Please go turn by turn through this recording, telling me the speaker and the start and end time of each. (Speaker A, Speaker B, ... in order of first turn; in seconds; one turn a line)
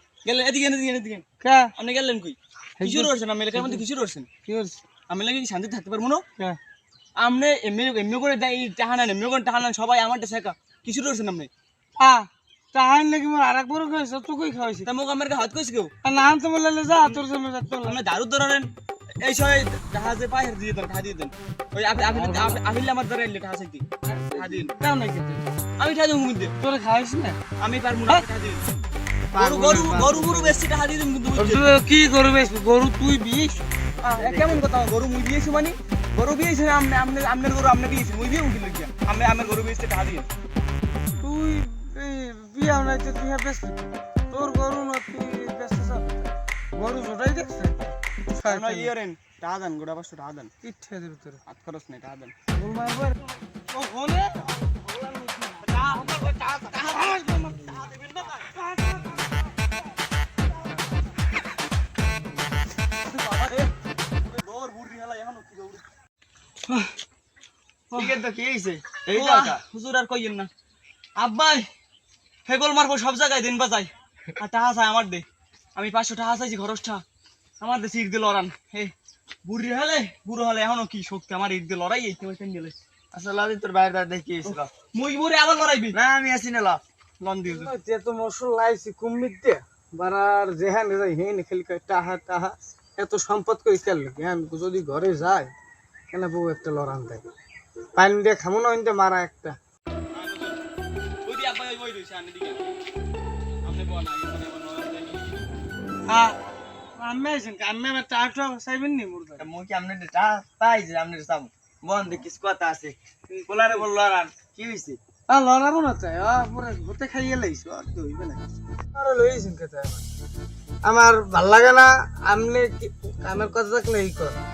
Speaker A: 0.2-1.2
Speaker B: 1.4-1.7
Speaker A: 1.8-4.3
Speaker B: 2.8-3.8
Speaker B: 4.5-4.8
Speaker A: 5.1-6.2
Speaker A: 7.2-11.5
Speaker B: 12.0-14.9
Speaker A: 14.8-15.9
Speaker B: 16.0-18.0
Speaker A: 17.8-18.7
Speaker A: 19.2-24.8
Speaker B: 22.1-22.6
Speaker B: 24.1-25.5
Speaker A: 25.8-26.5
Speaker B: 26.6-27.4
Speaker A: 27.6-28.6
Speaker B: 29.3-30.6
Speaker A: 29.3-31.7
Speaker B: 31.4-33.6
Speaker A: 34.0-40.3
Speaker B: 34.2-34.6
Speaker B: 41.2-48.9
Speaker A: 48.5-50.5
Speaker B: 50.6-51.4
Speaker A: 51.5-52.3
Speaker B: 52.5-57.9
Speaker A: 55.7-56.3
Speaker A: 57.5-58.5
Speaker A: 63.1-63.7
Speaker A: 64.2-65.9
Speaker A: 67.9-68.2
Speaker C: 67.9-69.6
Speaker A: 69.0-70.5
Speaker A: 71.2-71.7
Speaker A: 72.5-77.0
Speaker A: 77.6-78.9
Speaker A: 79.5-82.8
Speaker C: 83.1-84.7
Speaker A: 84.5-86.0
Speaker C: 85.9-86.8
Speaker A: 87.2-87.7
Speaker B: 87.4-95.5
Speaker B: 96.1-97.2
Speaker B: 98.0-99.6
Speaker A: 100.1-100.6
Speaker A: 101.2-102.7
Speaker A: 103.6-105.5
Speaker B: 106.1-106.4
Speaker B: 107.0-109.5
Speaker C: 109.4-113.0
Speaker B: 113.3-113.8
Speaker C: 113.5-115.0
Speaker B: 115.3-118.4
Speaker B: 119.0-120.0
Speaker B: 120.9-124.4